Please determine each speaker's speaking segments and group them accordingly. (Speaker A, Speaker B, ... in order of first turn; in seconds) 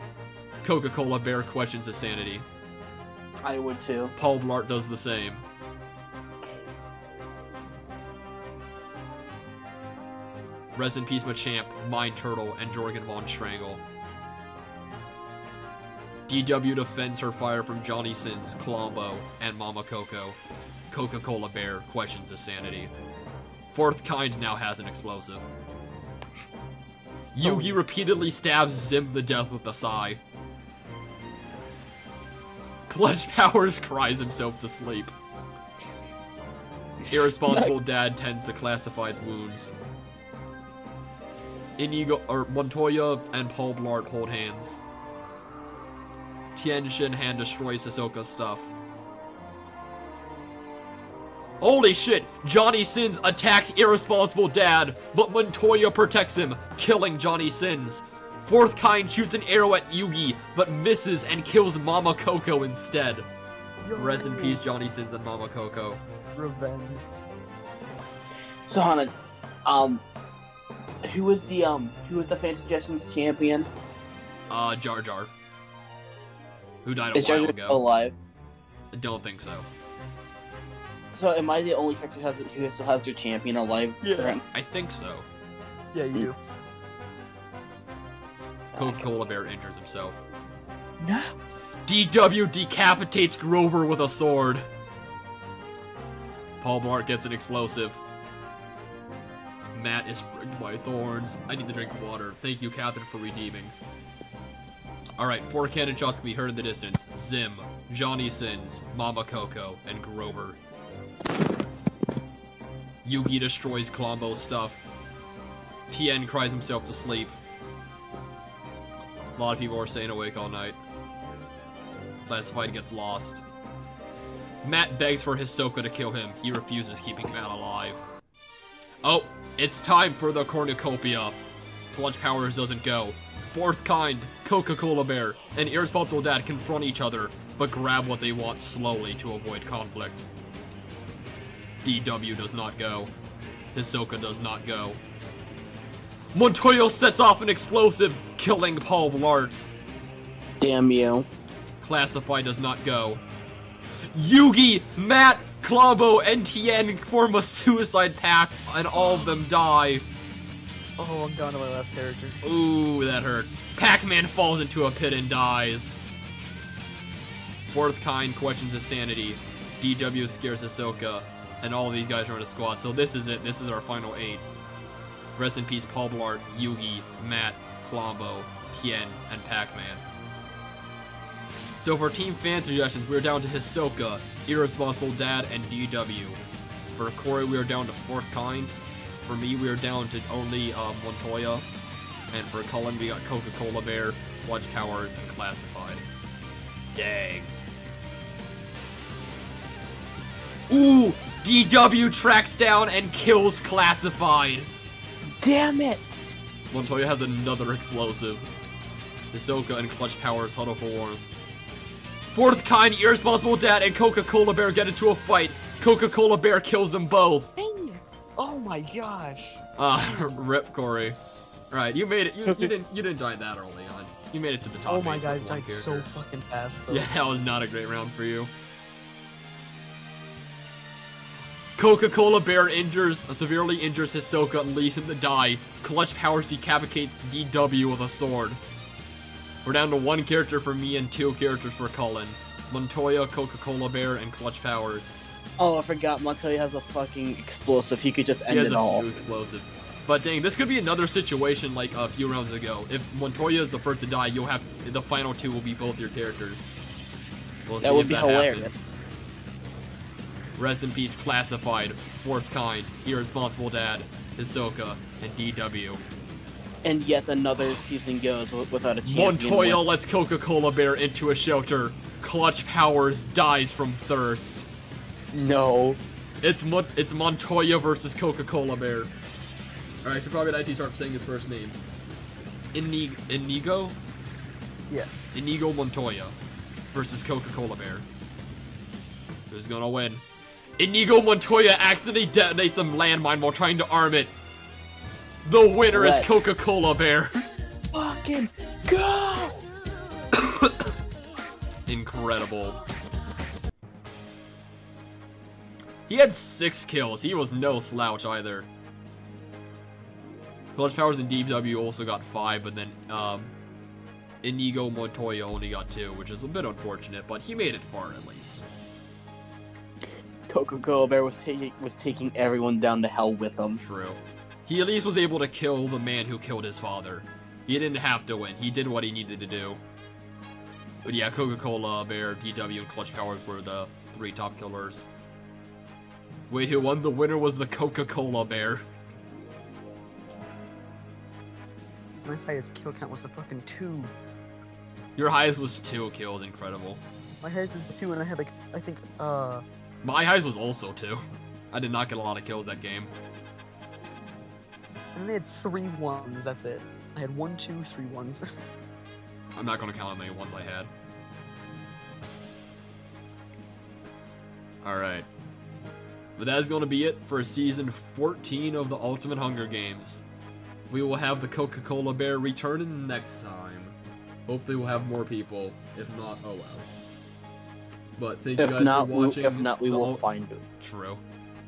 Speaker A: 0.6-2.5, 4.2-5.4, 10.7-13.8, 16.3-20.4, 20.9-22.9, 23.7-25.5, 27.3-30.2, 32.9-35.1, 37.1-39.7, 41.8-44.8, 46.5-48.7, 51.6-63.3, 63.9-66.0, 74.5-75.3, 76.8-77.8, 78.9-79.7, 84.5-85.3, 88.7-90.2, 91.8-94.7, 96.6-98.0, 99.7-103.7, 105.2-110.6, 113.0-114.9, 115.9-117.4, 119.3-120.8, 122.3-123.4, 124.6-128.1, 129.0-140.3, 141.8-143.1, 143.7-145.0, 146.3-149.7, 151.8-153.2, 154.1-160.1, 162.4-166.0, 167.7-174.4, 175.3-180.0, 181.8-186.4, 186.9-191.7, 192.3-196.1, 196.9-197.5, 200.7-204.7, 206.7-208.5, 209.3-211.3, 212.3-217.5, 219.8-221.2, 221.7-226.1, 226.9-228.5, 231.8-238.6, 239.6-245.2, 248.5-256.7, 257.7-258.9, 260.6-266.0, 269.0-274.7, 276.4-279.1, 280.0-281.8, 282.7-284.0, 285.3-286.4, 286.9-288.1, 289.5-290.2, 290.8-294.3, 295.4-297.4, 300.4-300.7, 301.9-302.8, 306.1-308.7, 310.7-313.5, 314.4-318.6, 323.8-329.8, 331.0-335.1, 336.5-338.9, 345.1-347.0, 350.0-353.1, 359.6-360.9, 364.8-365.3, 366.4-370.2, 370.9-373.9, 374.5-376.9, 378.2-380.2, 380.8-381.2
Speaker B: 3.4-4.1, 37.3-37.7, 68.7-69.1, 69.6-70.0, 71.0-73.7, 77.1-78.2, 81.1-84.4, 88.7-89.0, 91.0-91.3, 150.6-151.3, 205.4-206.3, 222.5-222.7, 245.6-249.1, 257.8-258.7, 266.8-269.8, 275.3-276.0, 295.9-296.3, 297.9-299.6, 320.5-323.8, 378.6-380.6
Speaker C: 27.5-27.7, 63.8-64.6, 66.3-67.1, 84.0-84.4, 85.9-86.4, 158.9-159.4, 161.0-162.4, 217.6-220.4, 224.8-227.1, 342.2-344.1, 347.4-349.6, 355.1-358.4